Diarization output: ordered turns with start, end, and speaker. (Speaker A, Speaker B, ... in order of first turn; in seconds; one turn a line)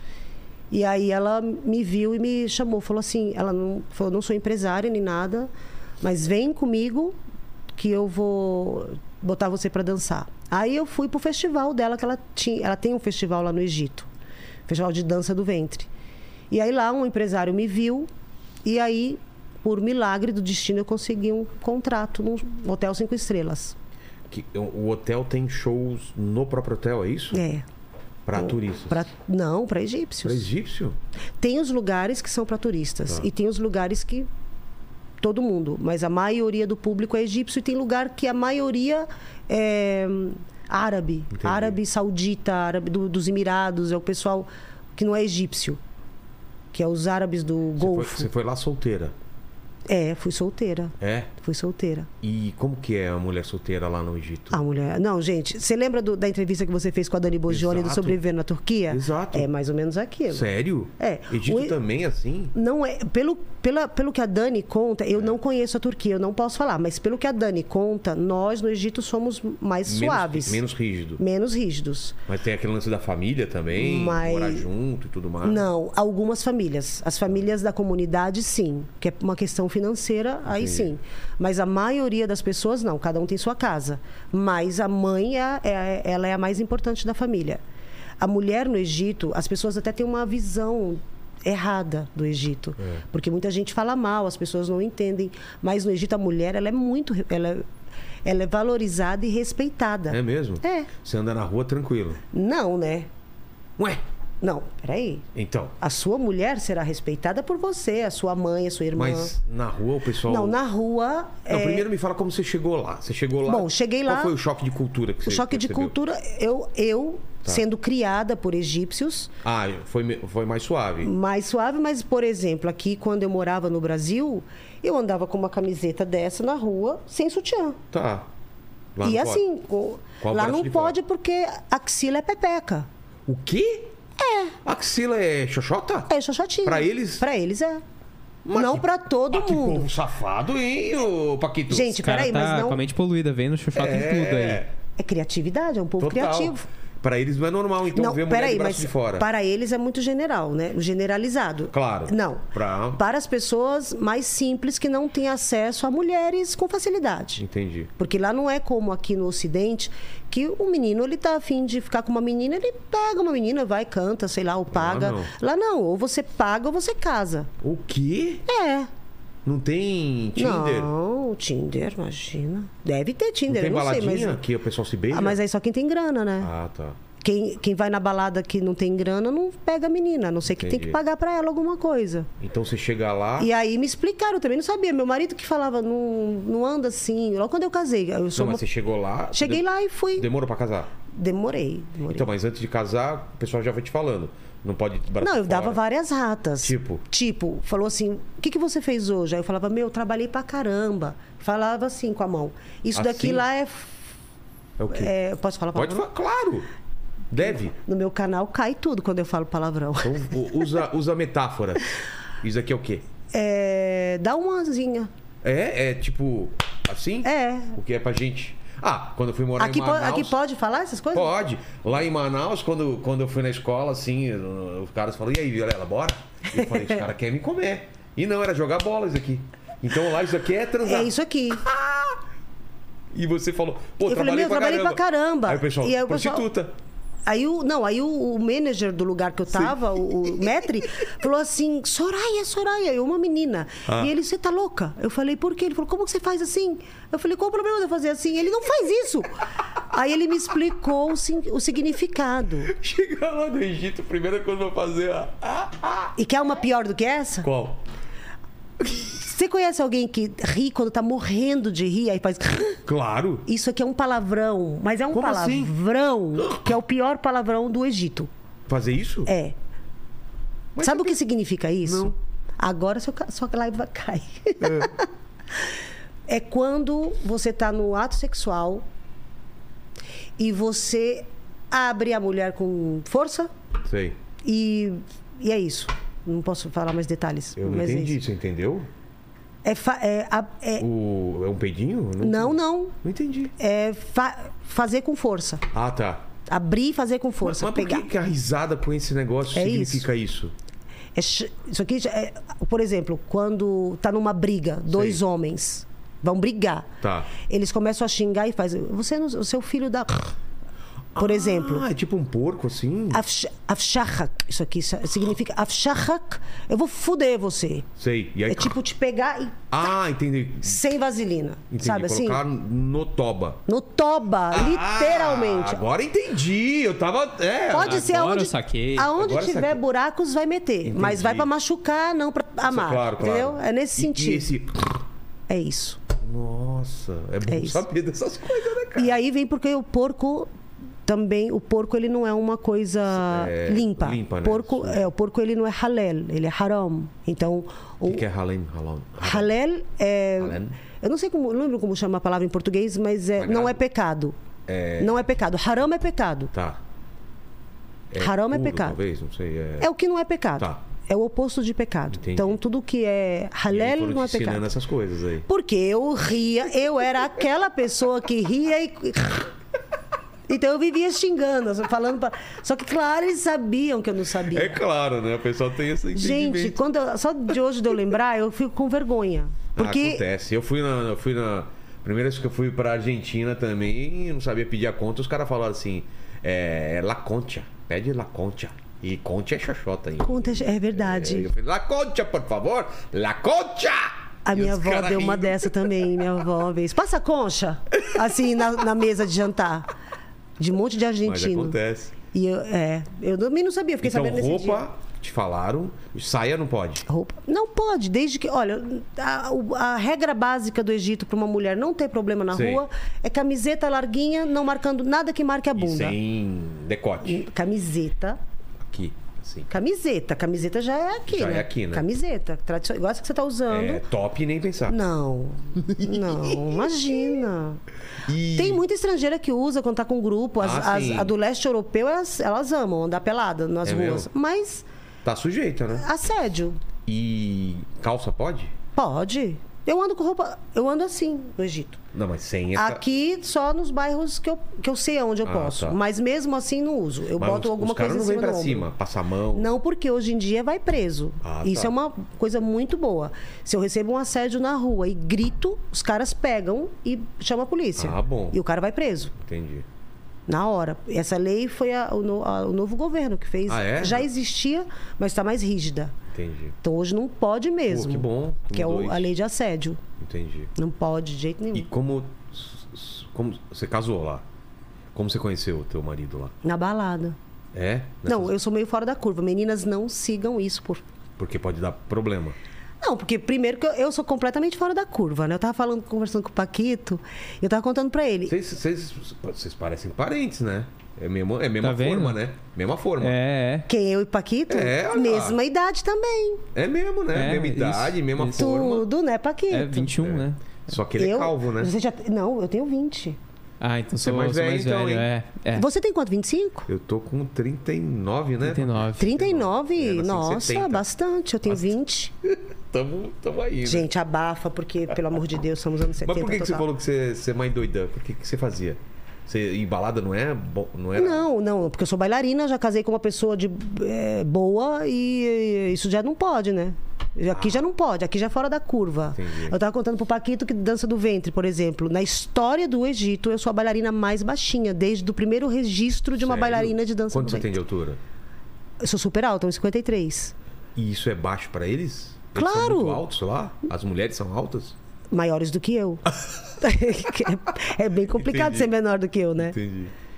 Speaker A: 0.7-5.5
Speaker A: 6.0-7.2
Speaker A: 7.8-14.1
Speaker A: 14.7-15.9
Speaker A: 16.5-18.1
Speaker A: 18.6-23.8
Speaker B: 24.3-27.4
Speaker A: 27.3-27.7
Speaker B: 28.3-29.1
Speaker A: 28.4-30.5
Speaker B: 30.2-31.0
Speaker A: 31.4-34.3
Speaker A: 35.2-45.8
Speaker B: 41.3-41.8
Speaker A: 46.7-48.3
Speaker B: 47.8-49.1
Speaker A: 49.9-52.1
Speaker B: 51.0-51.3
Speaker B: 52.2-54.6
Speaker A: 54.5-60.5
Speaker B: 57.5-58.2
Speaker B: 58.9-59.5
Speaker B: 60.3-62.5
Speaker A: 61.0-61.8
Speaker A: 62.5-70.6
Speaker B: 69.8-71.2
Speaker A: 71.2-72.2
Speaker B: 72.3-75.7
Speaker A: 73.7-74.7
Speaker A: 75.4-87.6
Speaker B: 80.5-80.9
Speaker A: 88.2-97.7
Speaker A: 98.2-100.9
Speaker B: 100.1-102.2
Speaker A: 102.3-103.1
Speaker A: 104.4-105.3
Speaker B: 105.3-105.8
Speaker A: 105.8-109.3
Speaker B: 109.0-110.6
Speaker A: 110.2-111.9
Speaker B: 111.5-116.0
Speaker A: 113.5-114.3
Speaker A: 115.2-119.3
Speaker B: 119.4-121.1
Speaker A: 121.0-127.8
Speaker B: 127.9-128.3
Speaker B: 128.9-129.4
Speaker A: 129.0-132.9
Speaker B: 130.2-131.0
Speaker B: 133.3-133.9
Speaker A: 134.2-134.6
Speaker B: 134.7-136.1
Speaker A: 136.1-137.8
Speaker B: 136.6-137.2
Speaker B: 138.4-142.0
Speaker A: 138.5-139.9
Speaker A: 141.7-142.8
Speaker C: 142.0-144.6
Speaker B: 143.7-144.7
Speaker A: 145.0-146.7
Speaker B: 146.0-149.3
Speaker A: 147.9-157.4
Speaker B: 151.7-153.0
Speaker B: 157.4-157.9
Speaker A: 158.0-167.5
Speaker B: 164.7-165.3
Speaker B: 167.6-168.4
Speaker A: 168.5-168.9
Speaker B: 169.4-170.9
Speaker A: 170.3-174.4
Speaker B: 173.5-175.4
Speaker A: 175.1-176.5
Speaker B: 176.4-177.0
Speaker A: 177.2-182.3
Speaker B: 180.5-181.0
Speaker B: 182.4-183.5
Speaker A: 183.4-188.6
Speaker B: 188.3-190.9
Speaker A: 189.3-190.3
Speaker A: 191.1-192.3
Speaker B: 192.1-195.8
Speaker A: 195.2-204.0
Speaker B: 196.6-197.0
Speaker B: 202.9-203.4
Speaker B: 204.8-205.1
Speaker A: 204.9-206.1
Speaker B: 205.7-206.7
Speaker B: 207.3-207.8
Speaker A: 207.7-210.4
Speaker B: 210.0-211.9
Speaker B: 212.4-213.0
Speaker A: 213.3-215.1
Speaker B: 215.4-220.3
Speaker A: 217.2-217.8
Speaker A: 219.6-221.4
Speaker B: 221.1-232.2
Speaker A: 230.8-231.7
Speaker B: 233.1-236.7
Speaker A: 234.0-236.5
Speaker A: 237.3-252.7
Speaker B: 239.5-240.6
Speaker B: 243.9-244.1
Speaker B: 252.7-256.1
Speaker A: 256.2-257.5
Speaker B: 257.4-257.8
Speaker A: 258.9-262.8
Speaker B: 262.9-263.5
Speaker A: 263.5-268.3
Speaker B: 265.1-265.7
Speaker B: 268.7-269.3
Speaker A: 269.3-269.6
Speaker B: 270.8-271.2
Speaker A: 270.8-275.1
Speaker B: 271.8-272.1
Speaker B: 274.6-274.9
Speaker A: 276.3-278.9
Speaker A: 280.4-283.5
Speaker B: 283.9-284.2
Speaker A: 284.4-288.2
Speaker B: 287.6-288.9
Speaker A: 289.6-290.9
Speaker B: 290.8-293.5
Speaker A: 292.2-293.0
Speaker A: 293.6-295.7
Speaker B: 295.7-296.2
Speaker A: 296.5-298.1
Speaker B: 297.4-300.5
Speaker A: 299.5-300.1
Speaker A: 301.1-310.3
Speaker B: 304.9-305.2
Speaker B: 307.0-307.3
Speaker B: 311.1-313.2
Speaker A: 311.2-311.9
Speaker A: 313.1-317.9
Speaker B: 318.0-318.8
Speaker A: 318.5-319.7
Speaker B: 319.7-320.8
Speaker A: 320.6-322.4
Speaker B: 321.7-323.6
Speaker A: 323.7-325.8
Speaker B: 324.5-328.2
Speaker A: 327.7-334.5
Speaker C: 327.8-329.1
Speaker B: 329.1-329.8
Speaker B: 330.8-331.5
Speaker B: 332.7-335.0
Speaker A: 335.5-336.0
Speaker B: 336.2-339.2
Speaker A: 337.5-337.8
Speaker A: 338.9-340.5
Speaker A: 341.1-348.2
Speaker B: 343.1-345.1
Speaker B: 348.1-349.5
Speaker A: 349.2-354.4
Speaker B: 350.4-350.8
Speaker B: 353.4-353.8
Speaker B: 354.7-355.2
Speaker A: 355.0-356.5
Speaker B: 356.5-356.8
Speaker B: 358.1-359.9
Speaker A: 358.2-359.0
Speaker A: 359.8-364.7
Speaker B: 362.1-362.6
Speaker B: 363.7-365.5
Speaker A: 365.5-369.5
Speaker A: 370.5-374.8
Speaker B: 374.5-376.8
Speaker A: 376.1-380.2
Speaker B: 379.8-396.3
Speaker A: 390.2-391.5
Speaker A: 394.4-399.9
Speaker A: 400.6-401.8
Speaker B: 401.2-402.1
Speaker A: 402.3-404.9
Speaker B: 404.0-407.1
Speaker A: 407.1-416.2
Speaker B: 412.5-412.8
Speaker B: 415.8-417.5
Speaker A: 417.2-418.4
Speaker B: 418.8-419.7
Speaker A: 419.7-424.0
Speaker B: 421.3-422.1
Speaker B: 423.7-425.0
Speaker A: 424.9-427.8
Speaker B: 425.8-427.0
Speaker B: 428.3-428.8
Speaker A: 428.5-434.9
Speaker B: 430.6-431.3
Speaker B: 433.9-434.3
Speaker B: 435.2-436.1
Speaker A: 435.9-436.8
Speaker B: 437.1-438.7
Speaker A: 439.0-442.0
Speaker B: 442.1-443.0
Speaker A: 442.8-448.9
Speaker B: 445.4-446.0
Speaker B: 447.4-449.7
Speaker A: 449.5-459.4
Speaker B: 451.4-451.9
Speaker B: 458.0-458.6
Speaker B: 459.4-459.9
Speaker A: 460.5-466.1
Speaker B: 463.7-464.3
Speaker B: 466.3-466.8
Speaker A: 466.8-470.0
Speaker B: 467.9-469.3
Speaker B: 470.2-470.7
Speaker A: 470.8-471.9
Speaker B: 471.7-474.4
Speaker B: 475.1-476.6
Speaker A: 476.6-477.4
Speaker B: 477.7-478.5
Speaker A: 478.3-481.0
Speaker B: 481.4-482.6
Speaker A: 483.0-488.5
Speaker B: 488.5-493.4
Speaker C: 491.8-492.4
Speaker C: 493.2-493.9
Speaker A: 493.9-496.7
Speaker B: 494.7-495.6
Speaker B: 496.8-499.1
Speaker C: 497.3-498.7
Speaker A: 498.5-500.1
Speaker C: 499.7-500.8
Speaker B: 500.2-501.9
Speaker A: 501.2-503.4
Speaker C: 503.8-505.9
Speaker B: 504.2-505.3
Speaker A: 505.8-506.9
Speaker B: 506.9-511.0
Speaker C: 508.6-509.3
Speaker A: 509.2-512.3
Speaker B: 511.7-514.1
Speaker A: 513.8-516.9
Speaker B: 516.2-521.5
Speaker A: 521.1-537.7
Speaker B: 527.5-527.8
Speaker B: 529.4-529.8
Speaker B: 536.4-538.2
Speaker A: 539.0-540.5
Speaker B: 541.0-545.0
Speaker A: 542.5-543.2
Speaker A: 545.3-546.2
Speaker A: 546.8-549.8
Speaker B: 548.4-548.9
Speaker B: 549.6-550.1